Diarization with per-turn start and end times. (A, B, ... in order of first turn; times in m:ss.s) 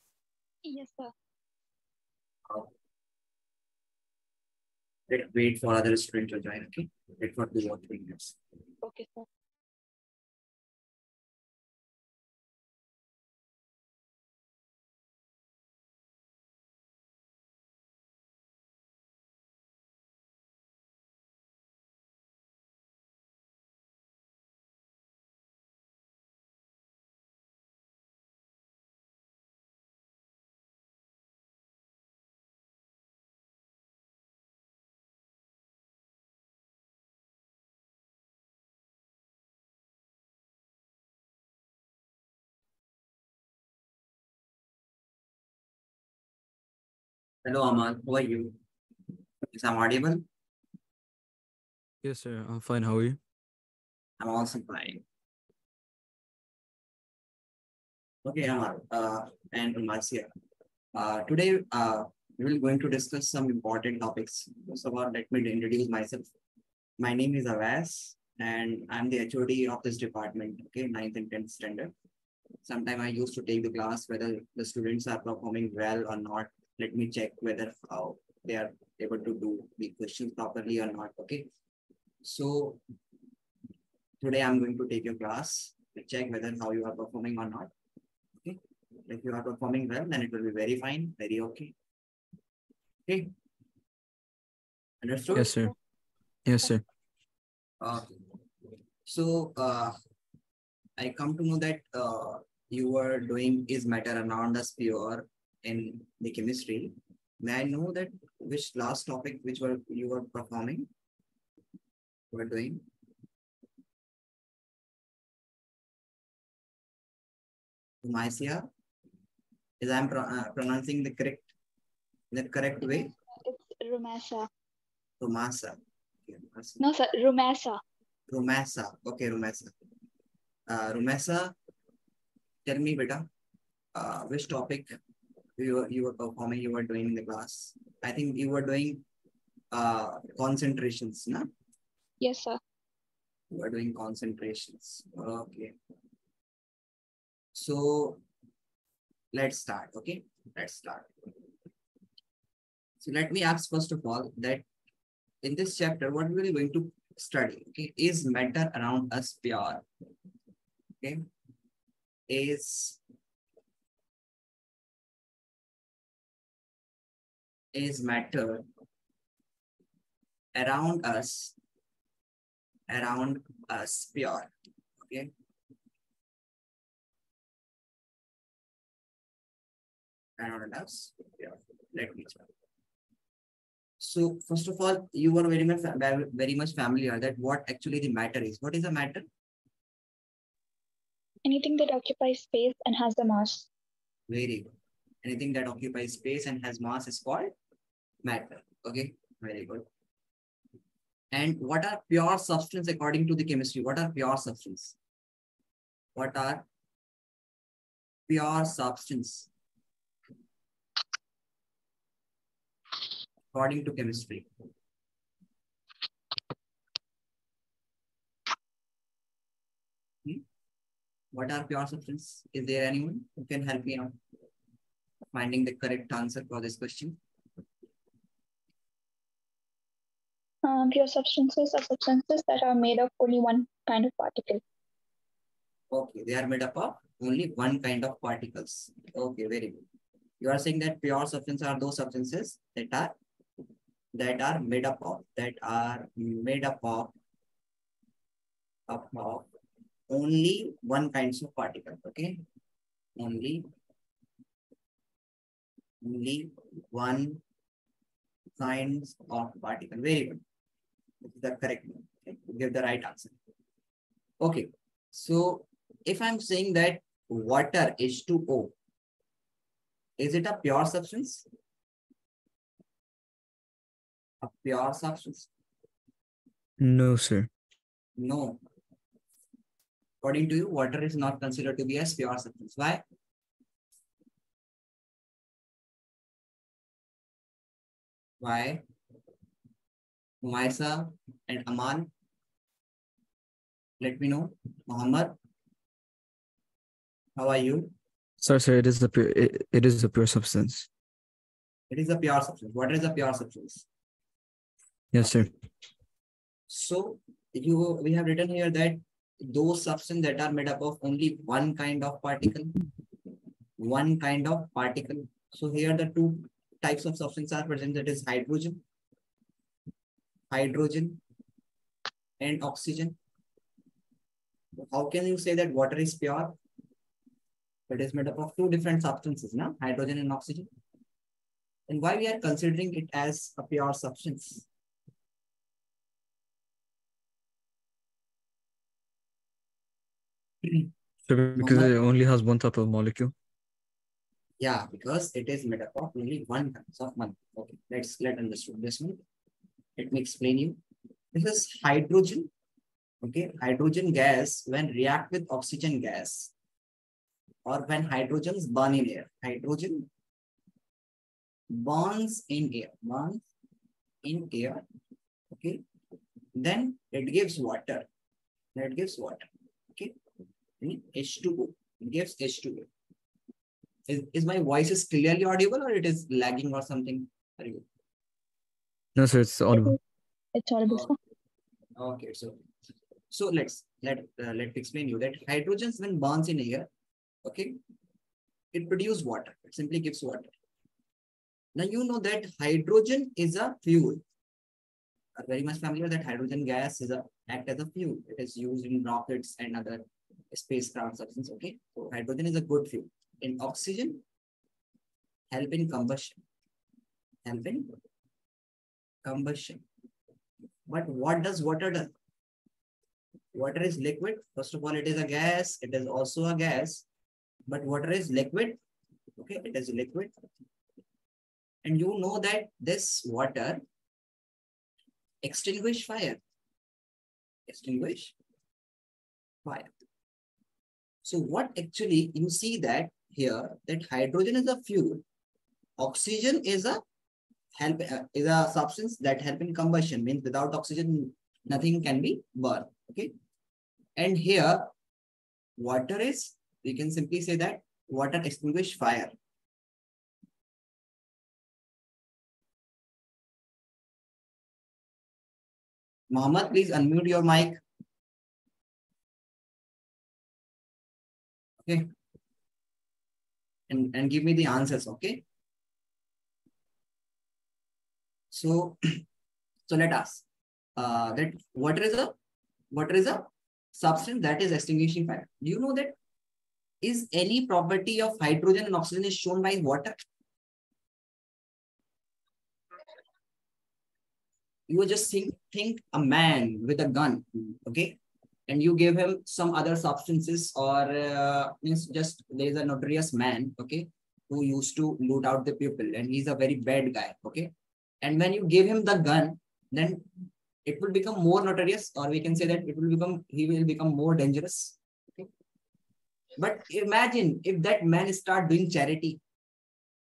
0:00.6-0:01.1 A
0:05.1-0:08.4 B
0:08.8-0:09.3 A
0:47.4-0:48.6 B
0:49.5-0:50.3 B
0:52.0-0:53.2 C
0:54.2-0:55.0 B
0:58.2-1:00.3 B
1:00.9-1:06.3 B
1:07.0-1:11.9 B
1:12.6-1:21.5 B
1:22.2-1:22.8 B
1:24.2-1:27.7 B
1:28.4-1:31.7 B
1:33.1-1:33.3 B
1:35.0-1:35.6 B
1:35.3-1:35.7 C
1:36.5-1:36.8 C
1:37.8-1:38.2 B
1:39.0-1:40.0 B
1:41.0-1:50.9 B
1:52.3-1:52.8 B
1:58.0-1:58.7 B
1:59.8-2:01.5 B
2:02.3-2:03.1 B
2:03.4-2:04.5 A
2:05.2-2:06.8 B
2:06.8-2:07.8 A
2:08.3-2:09.7 B
2:10.7-2:11.5 B
2:12.6-2:13.3 B
2:14.0-2:15.0 B
2:15.6-2:19.0 B
2:19.7-2:21.5 B
2:22.2-2:22.6 A
2:23.5-2:25.7 B
2:27.5-2:28.2 B
2:29.3-2:31.1 B
2:33.0-2:34.7 B
2:35.4-2:39.8 B
2:42.3-2:43.0 B
2:47.7-2:48.6 B
2:50.5-2:51.6 B
2:52.9-2:55.3 B
3:00.4-3:02.5 B
3:04.0-3:09.2 B
3:11.4-3:13.7 A
3:14.3-3:14.7 B
3:15.2-3:17.5 B
3:18.2-3:19.9 B
3:21.3-3:25.0 B
3:26.2-3:26.7 B
3:28.3-3:29.5 B
3:33.5-3:34.5 B
3:41.3-3:44.2 B
3:45.3-3:47.2 B
3:50.6-3:54.6 A
3:55.9-3:59.8 B
4:00.4-4:03.2 B
4:04.1-4:07.2 B
4:08.9-4:09.5 B
4:10.1-4:12.4 B
4:13.2-4:13.7 B
4:16.0-4:17.4 B
4:18.6-4:20.4 B
4:21.2-4:23.4 B
4:24.4-4:28.8 B
4:30.2-4:31.5 B
4:34.4-4:35.5 B
4:36.8-4:37.5 C
4:38.2-4:38.6 B
4:40.2-4:43.0 B
4:48.4-4:48.8 B
4:50.4-4:52.1 B
4:54.0-4:55.4 B
4:57.4-4:57.9 B
4:58.4-5:00.9 C
5:01.9-5:03.9 B
5:05.1-5:05.5 C
5:06.7-5:12.7 B
5:13.8-5:18.8 B
5:20.5-5:21.2 B
5:22.4-5:23.2 B
5:24.8-5:26.6 B
5:27.9-5:30.7 B
5:31.9-5:34.7 B
5:41.3-5:43.3 C
5:41.6-5:41.9 B
5:44.6-5:49.2 B
5:50.0-5:50.8 B
5:51.3-5:52.5 B
5:53.2-5:56.5 B
5:57.7-6:00.1 B
6:01.7-6:03.4 B
6:04.2-6:04.8 B
6:05.5-6:05.8 B
6:06.6-6:08.1 B
6:08.8-6:10.1 B
6:10.8-6:12.9 B
6:14.1-6:17.8 B
6:19.2-6:20.0 C
6:20.5-6:21.2 A
6:20.9-6:21.1 B
6:22.0-6:22.6 B
6:23.3-6:26.9 B
6:27.4-6:27.8 B
6:28.7-6:30.5 B
6:31.8-6:34.2 B
6:35.4-6:44.2 B
6:45.5-6:46.4 B
6:47.4-6:47.9 B
6:49.2-6:49.8 B
6:50.9-6:52.1 B
6:53.5-6:57.0 B
6:57.7-6:58.8 B
6:59.4-7:00.3 B
7:01.8-7:03.8 B
7:05.4-7:06.4 B
7:07.7-7:08.4 B
7:09.6-7:09.9 B
7:11.2-7:15.2 B
7:16.0-7:17.0 B
7:17.8-7:23.3 B
7:24.2-7:24.9 B
7:25.8-7:29.4 B
7:36.3-7:37.8 B
7:41.8-7:42.1 B
7:43.9-7:45.4 B
7:48.5-7:49.2 B
7:49.9-7:50.4 B
7:51.0-7:52.3 B
7:52.9-7:56.2 B
7:57.0-8:00.2 B
8:04.9-8:17.7 B
8:18.2-8:20.3 B
8:20.8-8:25.5 B
8:26.6-8:29.4 B